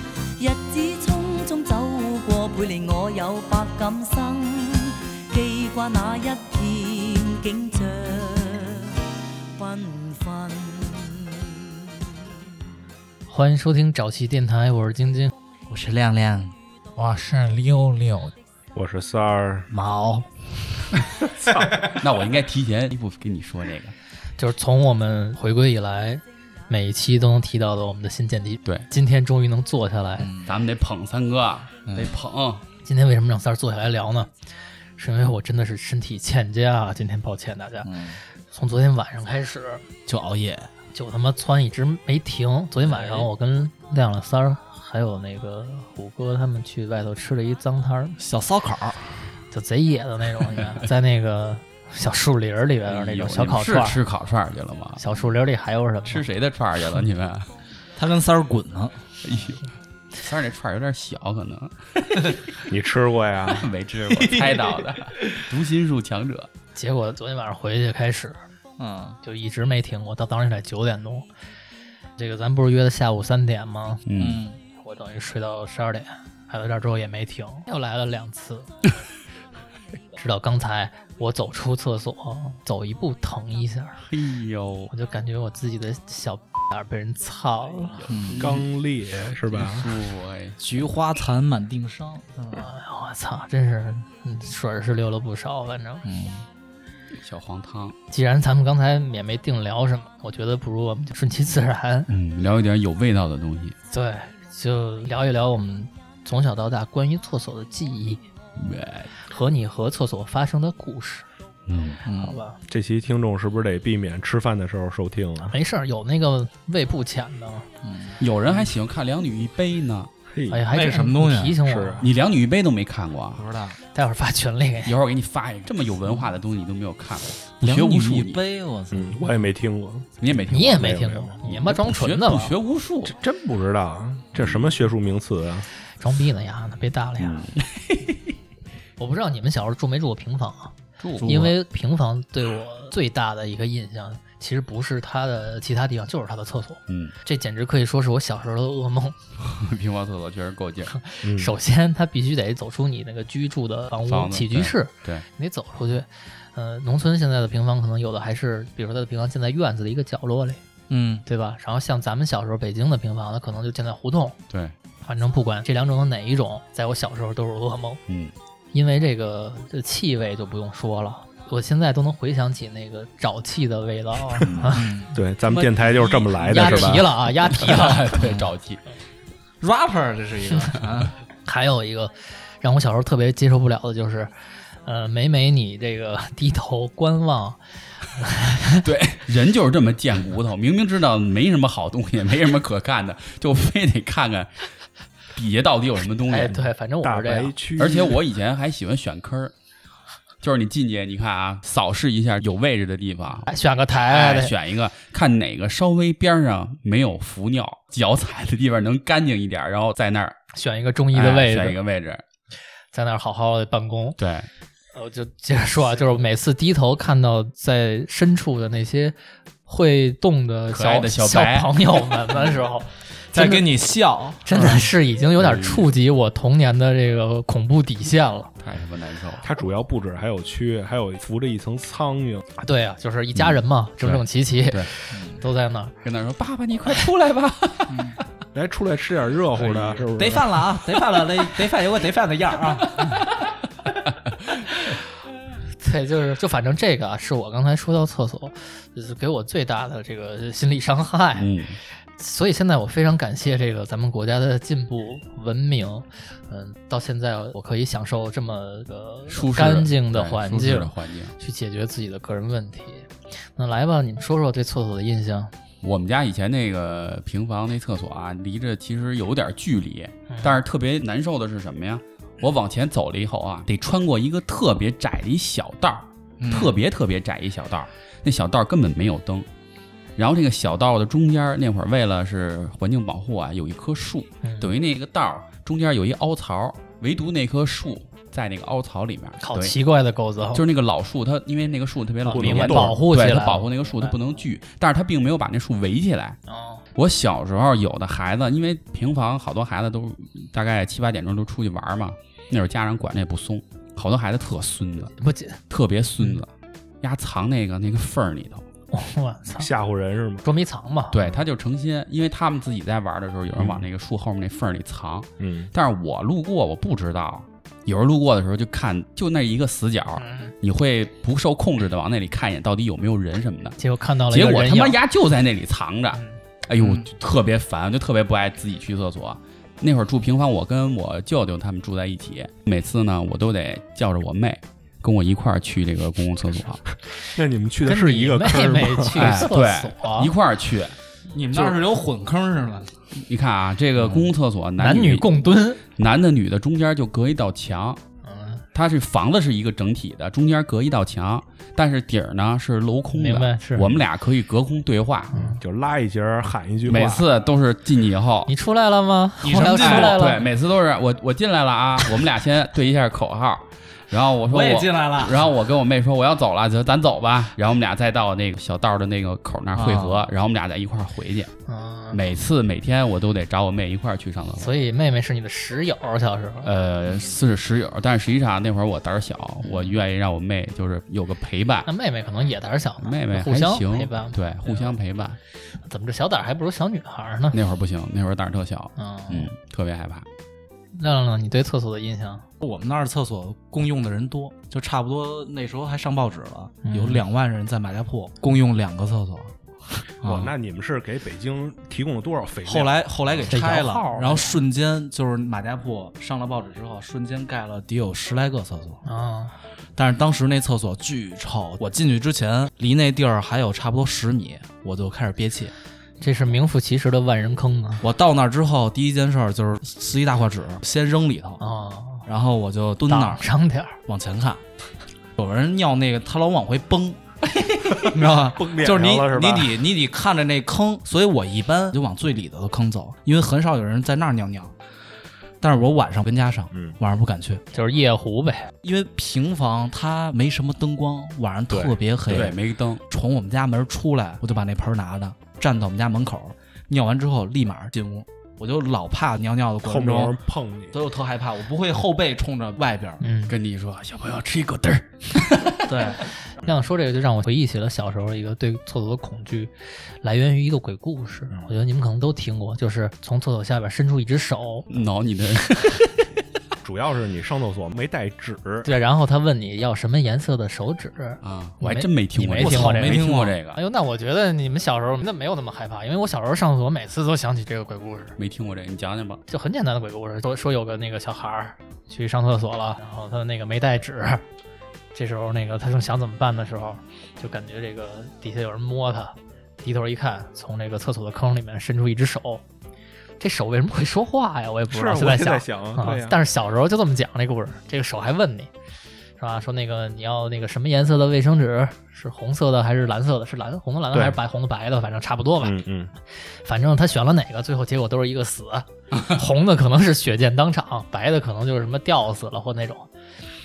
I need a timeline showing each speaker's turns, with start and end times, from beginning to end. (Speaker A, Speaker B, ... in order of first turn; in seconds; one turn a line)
Speaker A: 0.4-9.0
Speaker A: 9.6-12.1
Speaker B: 13.3-15.3
Speaker C: 15.7-16.6
Speaker D: 17.0-18.3
Speaker E: 18.7-19.7
Speaker C: 19.7-20.9
Speaker D: 21.7-23.9
Speaker B: 24.4-30.3
Speaker C: 30.2-30.5
Speaker D: 30.4-32.6
Speaker C: 31.9-32.2
Speaker B: 32.8-34.3
Speaker B: 35.0-39.9
Speaker C: 37.8-38.2
Speaker C: 40.1-40.7
Speaker B: 40.9-48.2
Speaker C: 42.9-43.3
Speaker C: 48.2-49.3
Speaker B: 49.5-54.0
Speaker D: 52.9-55.0
Speaker B: 55.0-56.3
Speaker D: 56.1-57.5
Speaker C: 58.0-59.0
Speaker D: 59.2-62.5
Speaker E: 62.7-63.7
Speaker D: 63.5-66.5
Speaker C: 64.1-65.4
Speaker B: 66.8-68.4
Speaker C: 68.8-69.2
Speaker B: 69.2-71.3
Speaker B: 72.2-74.0
Speaker D: 74.1-74.5
Speaker C: 74.2-74.6
Speaker B: 74.7-78.7
Speaker B: 80.2-84.1
Speaker D: 84.1-84.9
Speaker B: 84.9-88.0
Speaker D: 87.9-90.6
Speaker C: 88.1-88.5
Speaker E: 88.4-90.0
Speaker C: 90.6-92.7
Speaker B: 92.5-96.1
Speaker C: 96.1-96.5
Speaker D: 97.2-98.0
Speaker B: 98.1-102.1
Speaker D: 102.1-103.8
Speaker B: 103.9-108.3
Speaker D: 108.6-109.1
Speaker B: 109.2-111.3
Speaker D: 111.7-112.0
Speaker C: 112.0-112.4
Speaker B: 112.1-112.6
Speaker E: 112.7-115.6
Speaker B: 115.5-117.7
Speaker C: 117.8-118.2
Speaker D: 118.2-120.1
Speaker E: 120.3-120.7
Speaker B: 120.5-122.1
Speaker C: 120.7-121.6
Speaker E: 121.7-122.1
Speaker D: 122.0-123.5
Speaker C: 123.4-123.8
Speaker B: 123.9-124.9
Speaker D: 124.8-128.4
Speaker C: 127.6-129.4
Speaker E: 128.9-131.4
Speaker D: 130.2-133.2
Speaker B: 130.5-132.6
Speaker E: 133.0-135.7
Speaker D: 134.4-134.7
Speaker B: 136.0-137.5
Speaker D: 137.6-138.0
Speaker B: 139.0-149.2
Speaker D: 141.0-141.5
Speaker C: 141.2-141.5
Speaker D: 146.9-147.1
Speaker D: 149.4-151.0
Speaker B: 151.0-160.6
Speaker E: 151.2-151.5
Speaker D: 154.1-155.3
Speaker C: 160.9-161.2
Speaker B: 161.3-164.4
Speaker D: 164.5-164.8
Speaker B: 165.0-168.0
Speaker D: 168.1-168.3
Speaker B: 168.7-178.1
Speaker D: 174.5-174.7
Speaker C: 174.8-175.1
Speaker E: 175.1-177.1
Speaker D: 176.5-178.8
Speaker C: 178.2-178.5
Speaker C: 179.6-181.2
Speaker B: 181.4-188.9
Speaker D: 188.8-194.7
Speaker D: 195.3-196.6
Speaker B: 196.3-197.6
Speaker E: 197.0-198.2
Speaker D: 197.8-199.5
Speaker D: 200.4-203.5
Speaker B: 203.5-204.5
Speaker D: 204.1-210.4
Speaker B: 210.5-211.8
Speaker D: 211.1-212.2
Speaker B: 212.9-214.2
Speaker D: 214.2-214.5
Speaker B: 214.9-223.7
Speaker D: 220.7-221.7
Speaker C: 223.3-224.8
Speaker B: 224.4-228.5
Speaker D: 225.4-225.9
Speaker D: 228.6-229.4
Speaker E: 229.4-232.5
Speaker B: 232.6-235.9
Speaker D: 233.4-234.9
Speaker C: 235.1-235.4
Speaker D: 236.0-238.1
Speaker C: 237.9-238.2
Speaker E: 238.5-240.8
Speaker D: 239.6-240.0
Speaker C: 240.1-243.1
Speaker D: 243.0-243.3
Speaker B: 245.8-251.5
Speaker D: 251.4-251.8
Speaker B: 252.1-265.5
Speaker D: 259.3-261.4
Speaker D: 265.8-279.5
Speaker B: 270.3-270.6
Speaker C: 276.4-276.8
Speaker D: 280.2-289.8
Speaker B: 284.4-284.7
Speaker B: 289.4-290.6
Speaker D: 290.5-296.4
Speaker B: 292.2-294.1
Speaker E: 292.3-293.0
Speaker B: 296.5-296.8
Speaker D: 296.9-305.1
Speaker B: 305.2-305.6
Speaker D: 305.7-308.7
Speaker B: 308.9-309.7
Speaker E: 309.6-310.4
Speaker B: 310.4-311.1
Speaker D: 311.1-323.8
Speaker E: 313.6-313.9
Speaker E: 315.4-315.7
Speaker B: 320.2-320.5
Speaker B: 323.8-325.0
Speaker D: 324.3-336.8
Speaker C: 326.7-327.1
Speaker E: 337.2-339.4
Speaker B: 337.9-340.3
Speaker D: 339.2-341.0
Speaker C: 341.3-343.0
Speaker D: 341.5-341.8
Speaker D: 343.1-345.3
Speaker C: 344.0-344.3
Speaker B: 344.8-345.8
Speaker D: 346.0-348.0
Speaker B: 348.2-348.6
Speaker D: 348.7-355.3
Speaker B: 353.1-354.0
Speaker B: 355.3-355.6
Speaker E: 355.3-357.3
Speaker D: 356.9-358.5
Speaker B: 358.5-360.4
Speaker C: 359.4-360.4
Speaker D: 359.5-371.5
Speaker C: 364.5-365.5
Speaker C: 369.8-370.3
Speaker B: 371.7-372.2
Speaker D: 372.1-374.7
Speaker B: 374.6-376.7
Speaker D: 376.6-381.9
Speaker C: 379.7-379.9
Speaker B: 381.9-384.9
Speaker D: 383.0-385.4
Speaker B: 385.8-387.6
Speaker D: 387.5-390.3
Speaker B: 389.0-389.5
Speaker B: 390.9-392.5
Speaker C: 392.6-400.5
Speaker B: 396.8-397.2
Speaker E: 400.2-403.5
Speaker C: 402.7-409.0
Speaker B: 403.5-404.6
Speaker B: 409.1-409.6
Speaker C: 410.0-415.7
Speaker B: 416.2-418.1
Speaker C: 418.0-421.6
Speaker B: 421.6-422.2
Speaker C: 422.3-423.4
Speaker B: 423.1-424.0
Speaker C: 424.1-424.6
Speaker C: 425.4-427.2
Speaker C: 427.8-434.8
Speaker E: 428.4-429.9
Speaker C: 435.6-437.6
Speaker E: 436.7-437.0
Speaker B: 437.7-438.7
Speaker C: 438.8-450.4
Speaker E: 441.7-442.5
Speaker D: 442.3-443.0
Speaker E: 449.8-451.0
Speaker C: 450.9-453.2
Speaker B: 453.2-453.5
Speaker D: 453.5-456.2
Speaker C: 455.9-456.2
Speaker B: 456.6-464.9
Speaker D: 464.9-466.2
Speaker E: 466.8-468.9
Speaker B: 468.9-478.4
Speaker D: 471.4-473.8
Speaker C: 472.6-473.6
Speaker D: 478.4-479.4
Speaker B: 479.5-484.4
Speaker B: 485.1-492.6
Speaker B: 493.4-498.7
Speaker E: 494.9-496.4
Speaker B: 499.4-505.8
Speaker E: 504.1-504.4
Speaker E: 505.6-506.1
Speaker B: 506.3-513.1